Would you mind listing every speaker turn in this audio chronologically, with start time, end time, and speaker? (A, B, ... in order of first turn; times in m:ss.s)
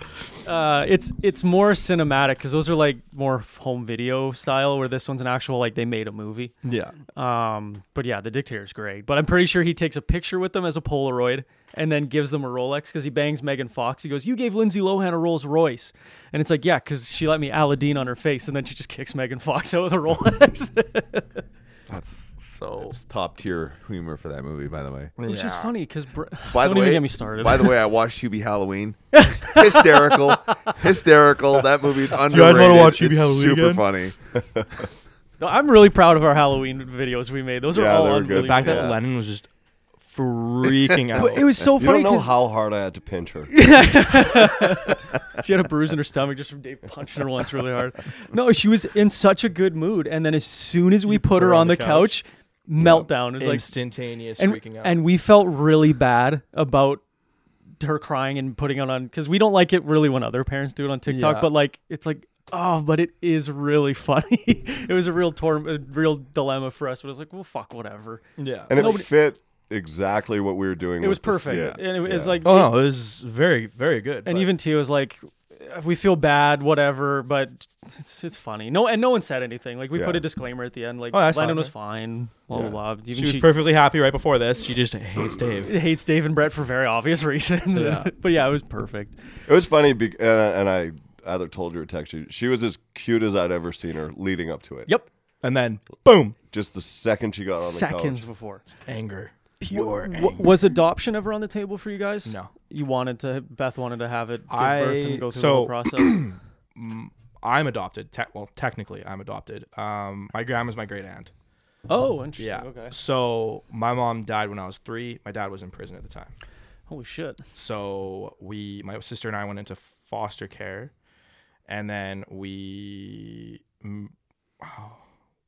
0:00.4-0:06.5 A
0:06.6-0:07.0 B
0:07.1-0:21.3 A
0:21.9-0:23.0 B
0:22.8-0:25.1 C
0:25.2-0:25.7 B
0:25.2-0:27.8 A
0:26.5-0:34.2 C
0:29.1-0:30.5 A
0:32.3-0:33.8 B
0:35.4-0:38.9 A
0:37.7-0:38.9 D
0:38.3-0:39.5 B
0:38.6-0:39.0 C
0:40.0-0:41.5 B
0:41.2-0:42.3 A
0:41.8-0:43.7 D
0:43.5-0:53.7 A
0:51.1-0:52.2 B
0:52.8-0:55.0 B
0:54.4-0:57.0 A
0:57.8-1:09.1 A
1:01.1-1:01.5 B
1:08.4-1:08.9 B
1:08.7-1:12.4 D
1:11.0-1:12.7 A
1:12.4-1:14.5 B
1:14.3-1:23.5 A
1:19.9-1:20.2 D
1:21.1-1:21.7 B
1:23.1-1:25.7 B
1:25.6-1:29.2 A
1:27.7-1:28.1 B
1:29.5-1:34.9 D
1:35.4-1:36.4 B
1:36.5-1:38.2 D
1:37.6-1:38.6 A
1:38.9-1:40.5 B
1:39.6-1:46.2 A
1:42.3-1:42.5 B
1:44.5-1:51.3 B
1:51.9-1:52.9 A
1:52.4-1:56.3 B
1:56.9-1:57.4 A
1:57.6-2:00.9 B
2:01.7-2:05.0 B